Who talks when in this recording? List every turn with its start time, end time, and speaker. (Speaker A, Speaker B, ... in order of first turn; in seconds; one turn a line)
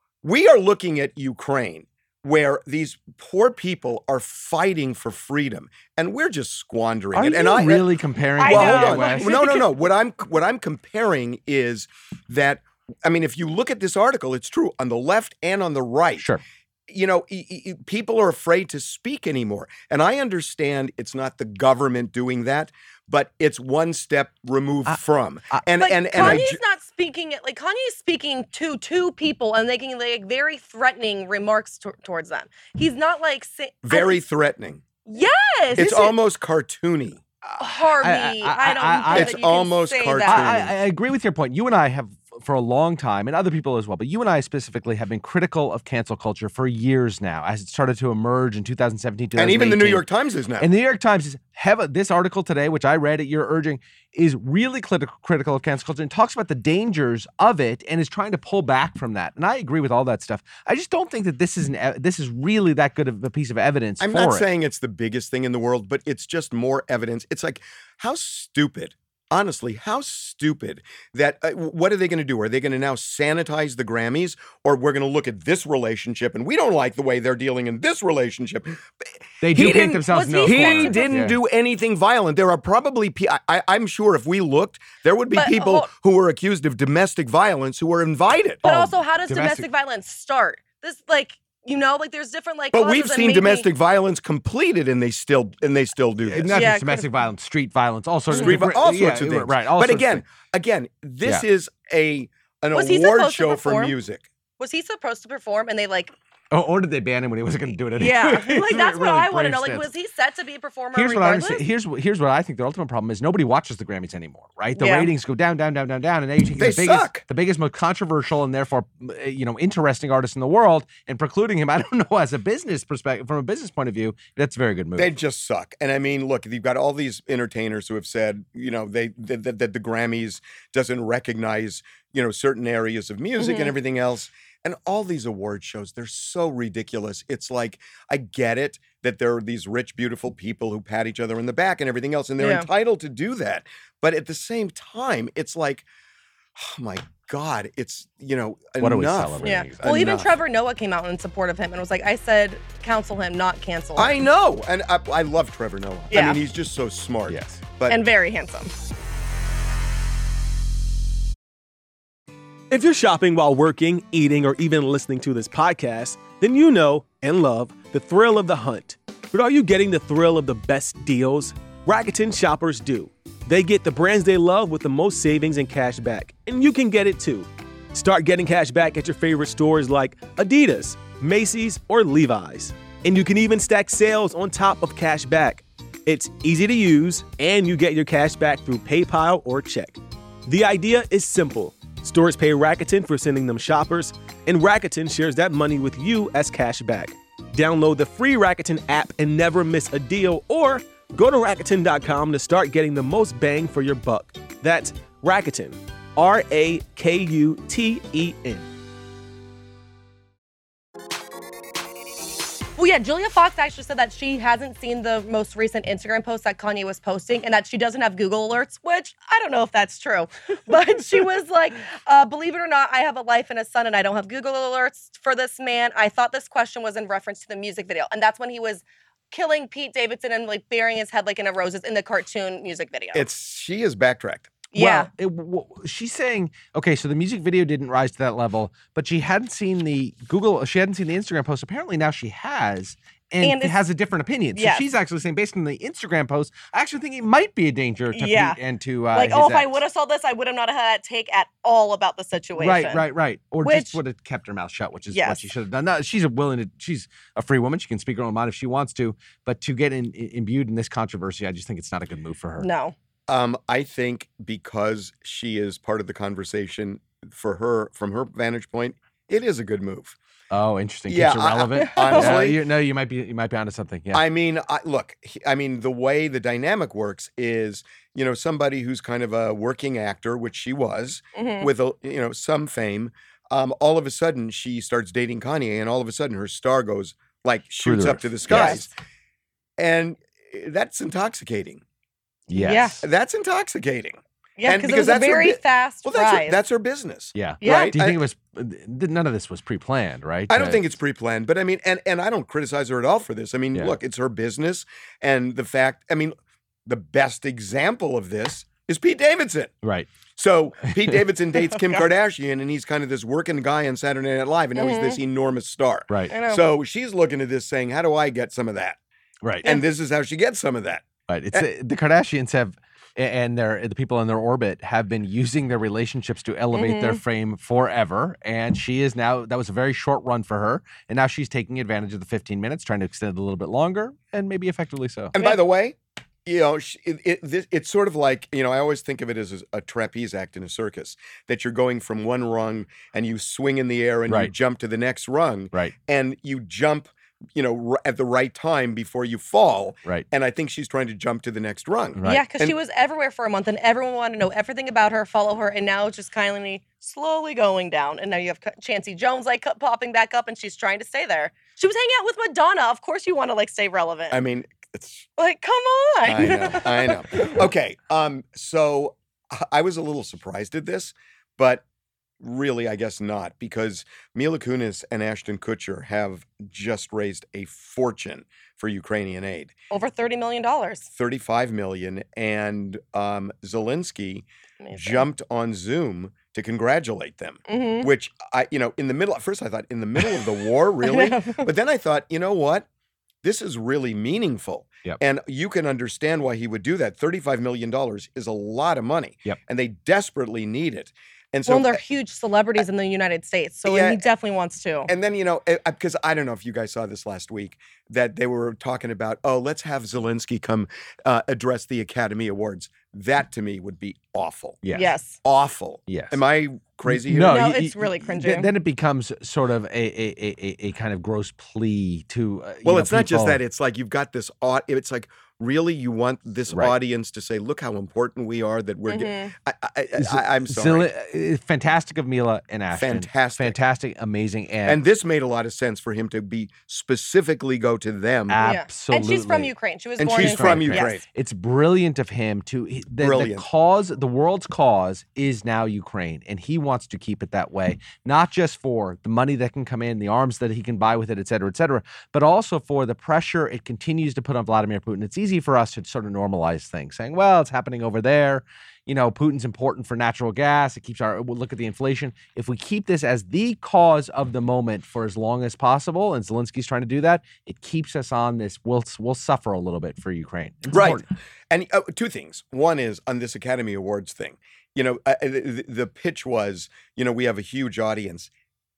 Speaker A: 0.2-7.9
Speaker B: 7.1-9.4
Speaker C: 8.4-9.6
Speaker A: 8.4-16.3
Speaker A: 16.9-26.6
Speaker B: 24.9-26.4
Speaker C: 25.8-34.2
Speaker A: 33.8-34.8
Speaker C: 35.0-36.2
Speaker A: 35.7-37.2
Speaker B: 37.5-39.3
Speaker C: 37.6-40.6
Speaker A: 39.1-40.8
Speaker B: 40.2-50.0
Speaker A: 49.4-50.7
Speaker B: 50.6-64.5
Speaker A: 64.0-78.8
Speaker B: 79.4-81.3
Speaker A: 79.4-88.7
Speaker C: 80.1-81.3
Speaker C: 85.3-85.9
Speaker C: 88.6-93.7
Speaker B: 88.7-89.7
Speaker A: 92.7-96.7
Speaker B: 96.2-100.2
Speaker C: 96.5-97.1
Speaker C: 98.3-98.6
Speaker A: 98.3-104.2
Speaker C: 102.7-104.0
Speaker C: 104.6-106.1
Speaker B: 106.5-109.9
Speaker C: 108.0-111.6
Speaker B: 110.9-125.1
Speaker C: 114.8-115.1
Speaker A: 116.6-117.2
Speaker A: 124.9-145.8
Speaker C: 133.4-133.7
Speaker C: 142.4-142.7
Speaker A: 146.6-150.4
Speaker B: 148.8-150.0
Speaker C: 149.4-154.2
Speaker A: 153.9-158.0
Speaker C: 156.1-156.4
Speaker B: 157.3-157.6
Speaker C: 157.9-158.7
Speaker D: 162.7-208.7
Speaker C: 212.8-233.3
Speaker A: 233.1-234.6
Speaker C: 234.7-235.1
Speaker B: 234.8-249.8
Speaker C: 243.4-243.8
Speaker C: 244.5-244.8
Speaker C: 248.1-248.6
Speaker C: 249.1-253.1
Speaker B: 252.6-262.7
Speaker C: 253.6-254.0
Speaker C: 255.1-255.5
Speaker C: 262.6-262.9
Speaker A: 263.3-270.2
Speaker B: 270.5-274.2
Speaker A: 271.1-272.6
Speaker C: 271.9-272.4
Speaker A: 274.1-288.9
Speaker C: 281.4-281.7
Speaker B: 287.8-288.9
Speaker C: 288.5-288.8
Speaker A: 289.8-291.8
Speaker B: 292.5-293.0
Speaker C: 292.5-293.0
Speaker A: 293.0-298.2
Speaker C: 294.6-296.6
Speaker B: 297.3-300.9
Speaker C: 297.6-297.9
Speaker A: 300.5-306.3
Speaker A: 306.9-309.7
Speaker B: 309.8-310.1
Speaker A: 310.4-319.0
Speaker B: 310.9-311.2
Speaker C: 311.6-312.1
Speaker C: 314.8-315.2
Speaker C: 316.3-316.6
Speaker B: 319.4-319.7
Speaker A: 319.6-321.7
Speaker B: 321.3-335.3
Speaker C: 326.7-327.2
Speaker A: 335.3-352.7
Speaker B: 344.3-344.5
Speaker B: 352.1-352.4
Speaker C: 352.2-364.4
Speaker A: 364.3-365.3
Speaker C: 365.4-367.5
Speaker A: 366.2-371.8
Speaker A: 372.4-379.7
Speaker C: 379.9-381.1
Speaker A: 381.1-392.9
Speaker C: 384.8-385.3
Speaker C: 387.7-388.1
Speaker C: 391.0-391.7
Speaker A: 393.4-402.0
Speaker C: 401.7-405.1
Speaker A: 403.9-404.2
Speaker A: 405.1-414.9
Speaker B: 414.8-415.1
Speaker C: 414.9-415.4
Speaker A: 415.4-417.6
Speaker B: 416.1-416.4
Speaker B: 417.1-423.6
Speaker C: 417.4-418.7
Speaker A: 422.8-431.1
Speaker B: 426.7-426.9
Speaker C: 429.1-429.5
Speaker B: 430.1-435.0
Speaker A: 432.9-433.8
Speaker A: 434.9-438.6
Speaker B: 438.5-439.7
Speaker C: 438.6-441.2
Speaker A: 440.2-441.2
Speaker B: 440.3-471.2
Speaker A: 443.2-443.7
Speaker A: 470.9-478.5